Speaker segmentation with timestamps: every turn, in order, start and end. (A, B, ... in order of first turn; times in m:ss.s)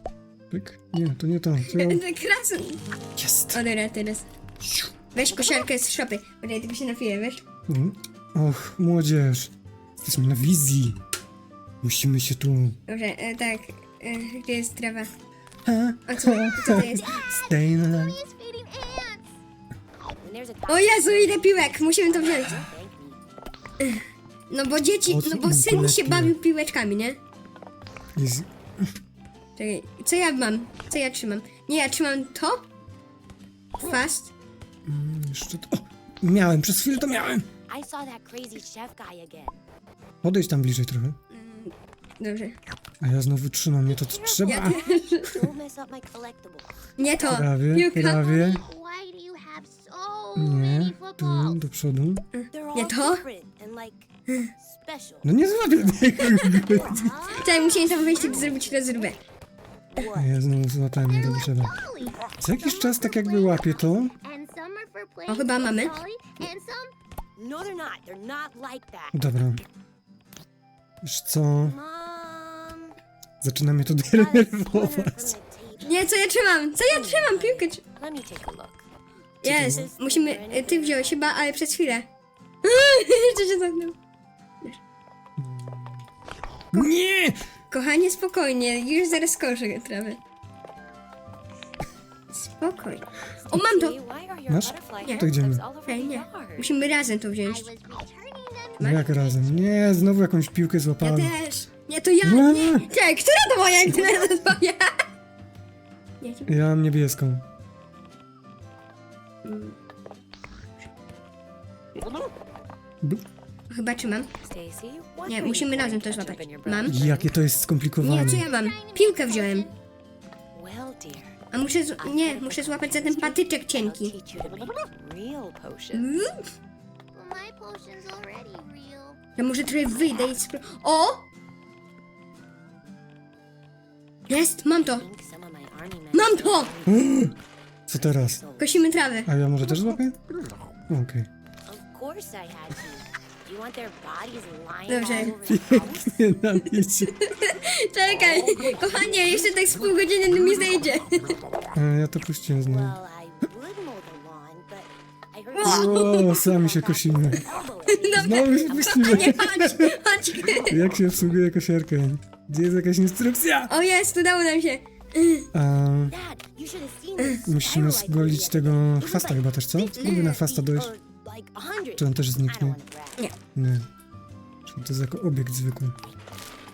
0:00.5-0:02.0 A
0:01.6-0:02.8 B
0:03.2-0:03.6 A
0:03.5-0:04.3 B
0:04.6-0:04.9 A
0:05.1-0:07.4 B
0:07.7-0:11.0 A
0:11.8-0:12.8 A
0:12.9-0:15.1 B
0:15.6-0:18.2 A
0:16.1-0:17.1 B
0:16.8-0:19.3 C
0:20.2-0:23.2 D
0:20.7-0:22.6 B
0:23.8-0:27.2 B
0:25.1-0:26.4 A
0:28.2-0:28.9 A
0:29.6-0:32.6 B
0:33.8-0:34.3 B
0:34.8-0:37.5 A
0:37.7-0:39.6 D
0:40.2-0:41.2 A
0:41.3-0:42.6 B
0:43.0-0:44.8 A
0:43.9-0:46.7 D
0:44.4-0:45.4 B
0:47.0-0:48.3 B
0:47.2-0:48.6 A
0:48.0-0:51.6 C
0:50.4-0:52.2 A
0:52.3-0:53.2 B
0:52.5-0:54.0 D
0:54.6-0:55.3 D
0:55.2-0:57.2 A
0:56.5-0:58.7 D
0:56.7-0:59.1 C
0:57.3-0:59.2 B
0:59.9-1:00.3 D
1:00.1-1:04.1 A
1:01.1-1:06.9 C
1:05.2-1:06.0 B
1:07.4-1:09.2 D
1:09.1-1:09.6 A
1:11.0-1:11.8 A
1:11.6-1:13.0 D
1:13.4-1:15.3 A
1:14.1-1:16.1 D
1:15.8-1:17.8 B
1:16.8-1:18.8 D
1:19.4-1:22.0 B
1:19.4-1:19.9 A
1:19.5-1:21.4 D
1:22.6-1:24.0 B
1:25.4-1:26.0 A
1:26.7-1:27.4 A
1:27.7-1:30.2 B
1:32.3-1:34.0 B
1:33.5-1:36.7 D
1:34.5-1:35.6 A
1:35.0-1:35.3 B
1:35.9-1:37.7 B
1:37.4-1:39.6 C
1:38.8-1:41.3 A
1:38.8-1:39.0 B
1:41.0-1:44.9 B
1:42.2-1:42.9 A
1:46.2-1:46.5 B
1:46.5-1:47.4 A
1:49.4-1:49.8 B
1:53.7-1:54.3 B
1:54.4-1:57.3 D
1:55.2-1:57.0 B
1:56.8-1:58.5 A
1:58.0-1:59.7 B
1:58.5-1:59.7 C
2:00.5-2:01.4 D
2:01.5-2:04.1 B
2:02.0-2:06.1 D
2:05.9-2:06.5 B
2:07.1-2:09.2 C
2:09.4-2:11.2 B
2:14.3-2:15.0 B
2:14.8-2:17.0 D
2:16.1-2:16.7 B
2:16.8-2:17.3 A
2:17.9-2:18.4 A
2:18.0-2:18.8 D
2:18.6-2:19.3 B
2:19.2-2:20.2 A
2:20.9-2:21.3 A
2:21.6-2:26.2 D
2:24.9-2:25.3 B
2:25.4-2:27.2 A
2:27.1-2:31.3 B
2:31.7-2:33.0 A
2:32.6-2:39.4 D
2:35.6-2:36.4 B
2:35.6-2:37.5 A
2:37.9-2:40.8 B
2:38.1-2:39.9 A
2:40.6-2:43.7 A
2:43.7-2:45.5 B
2:45.5-2:46.2 A
2:46.1-2:53.2 D
2:47.4-2:50.9 A
2:50.0-2:50.4 B
2:52.0-2:52.8 A
2:53.5-2:53.9 A
2:54.6-2:55.9 A